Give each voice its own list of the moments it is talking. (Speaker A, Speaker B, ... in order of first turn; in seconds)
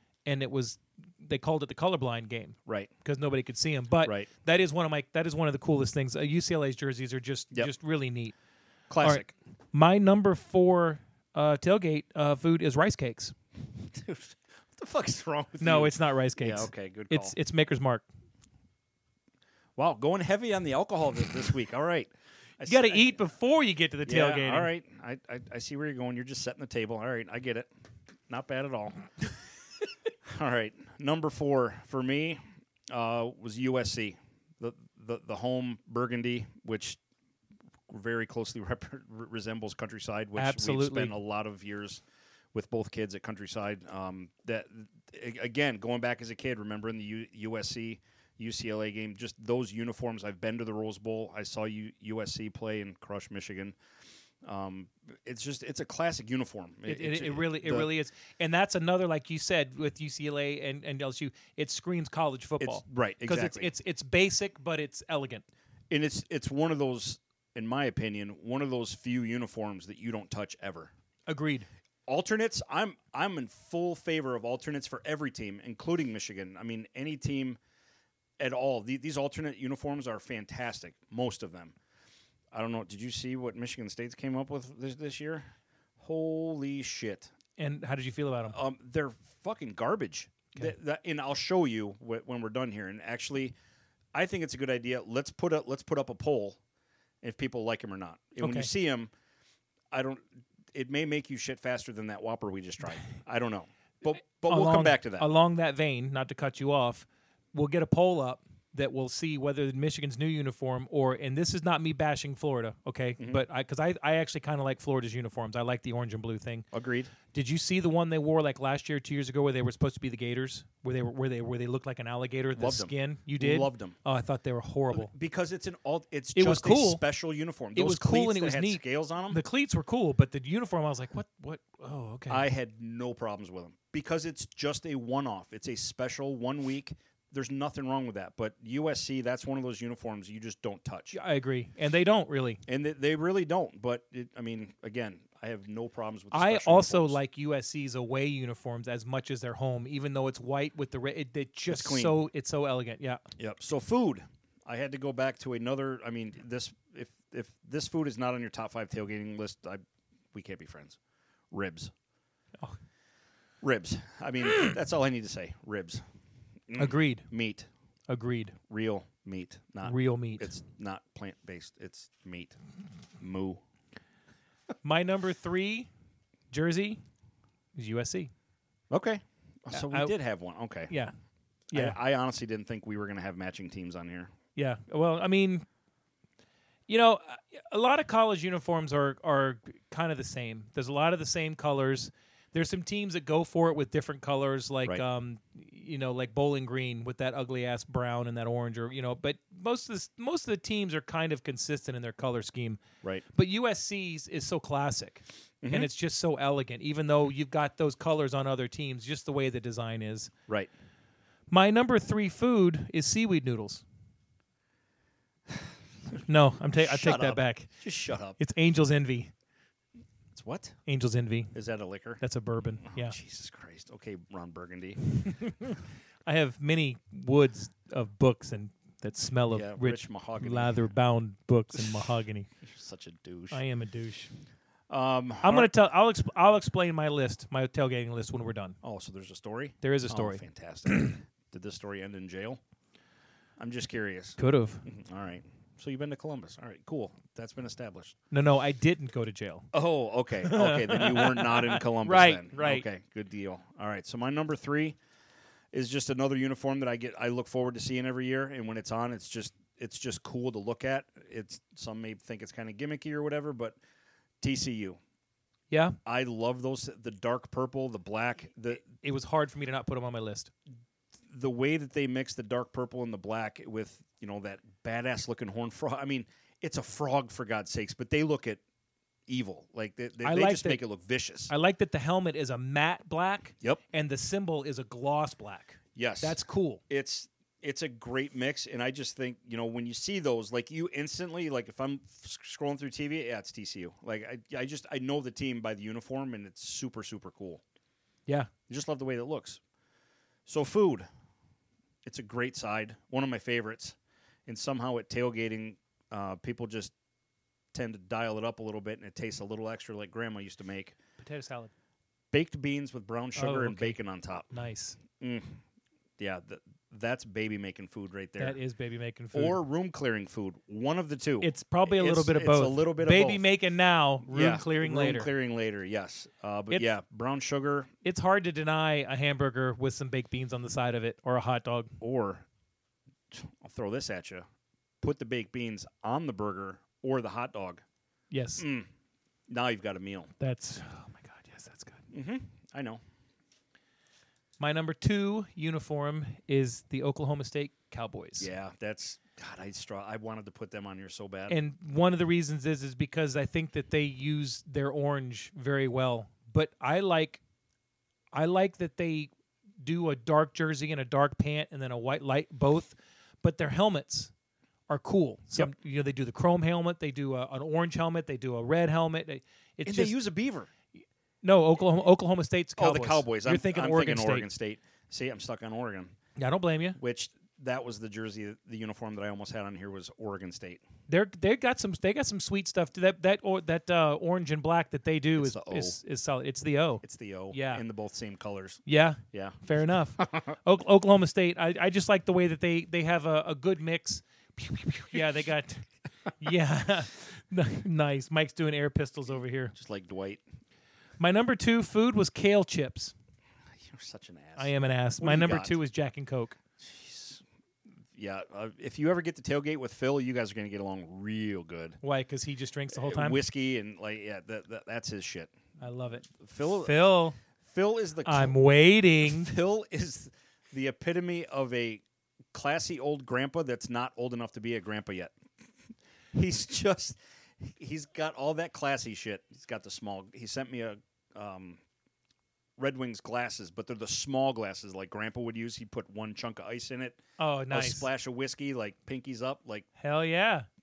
Speaker A: 0.2-8.3, 9.0-13.3, 15.6-18.1, 22.6-24.7, 40.4-41.1, 56.9-65.4, 71.3-71.7, 87.6-88.6, 98.4-98.7, 104.5-116.7, 117.3-125.1, 126.3-127.0, 127.7-132.4, 141.1-142.6, 146.3-153.2, 164.4-164.7, 166.8-167.3, 168.1-168.6, 169.8-170.5, 174.8-175.9, 176.5-177.0, 177.7-178.3, 179.7-180.1, 180.9-181.1, 181.7-182.0, 184.5-185.7, 186.9-202.8, 203.3-210.3, 211.5-213.8, 216.2-217.7, 218.4-219.3, 220.8-221.5, 222.2-223.2, 225.2-232.5, 233.5-234.3, 235.4-238.8, 239.8-241.1, 244.4-244.8, 248.3-249.7, 250.4-252.8, 265.7-266.0, 268.9-270.5, 280.2-280.8, 281.5-286.8, 311.2-311.7, 313.3-314.0, 314.5-315.0, 318.4-319.6, 321.4-325.3, 328.0-331.9, 338.3-338.6, 340.4-342.0, 344.6-348.5, 351.5-357.4, 358.3-359.3, 359.8-364.3, 364.9-370.1, 371.4-374.5, 376.4-377.0, 381.1-387.8, 388.9-395.9, 396.4-399.7, 401.2-403.1, 404.6-406.6, 412.0-413.4, 415.8-417.4, 418.2-419.5, 437.4-438.1, 440.0-440.7
Speaker B: 4.0-4.3, 8.9-9.3, 13.8-17.3, 19.8-23.2, 24.1-27.7, 28.3-29.1, 30.2-37.0, 37.9-42.0, 42.5-53.7, 54.4-57.9, 62.6-63.7, 65.9-70.9, 72.1-77.6, 78.4-81.8, 82.5-85.5, 86.0-87.3, 88.5-93.5, 94.1-96.6, 97.2-99.1, 99.9-105.3, 113.2-113.4, 116.7-117.1, 122.5-124.0, 124.9-129.4, 132.3-141.2, 142.7-147.2, 151.7-152.1, 153.4-159.8, 160.3-161.0, 161.5-161.9, 163.6-166.0, 166.7-167.7, 168.7-172.6, 173.2-173.6, 178.9-180.9, 181.7-184.3, 205.6-205.9, 216.8-218.4, 220.3-220.8, 221.5-222.2, 222.8-225.3, 229.5-230.8, 232.6-233.6, 234.9-235.7, 238.8-242.6, 243.6-248.2, 249.7-255.0, 255.7-263.8, 264.4-265.0, 266.0-268.9, 271.3-278.6, 279.3-281.5, 285.9-297.6, 298.7-299.6, 300.4-301.1, 302.0-303.9, 304.5-306.9, 307.7-310.9, 312.3-314.5, 315.2-315.6, 316.2-318.6, 319.3-323.4, 324.3-327.9, 332.0-332.4, 333.3-334.5, 335.0-337.8, 338.6-338.9, 339.5-340.3, 342.1-343.0, 348.4-351.6, 369.8-370.7, 372.8-376.1, 377.0-380.8, 385.4-386.0, 387.0-389.6, 390.2-390.5, 399.7-400.4, 403.8-405.7, 406.8-407.4, 408.1-412.0, 412.9-415.5, 416.3-417.1, 417.6-418.6, 419.2-422.0, 422.5-425.3, 426.3-431.8, 432.8-439.9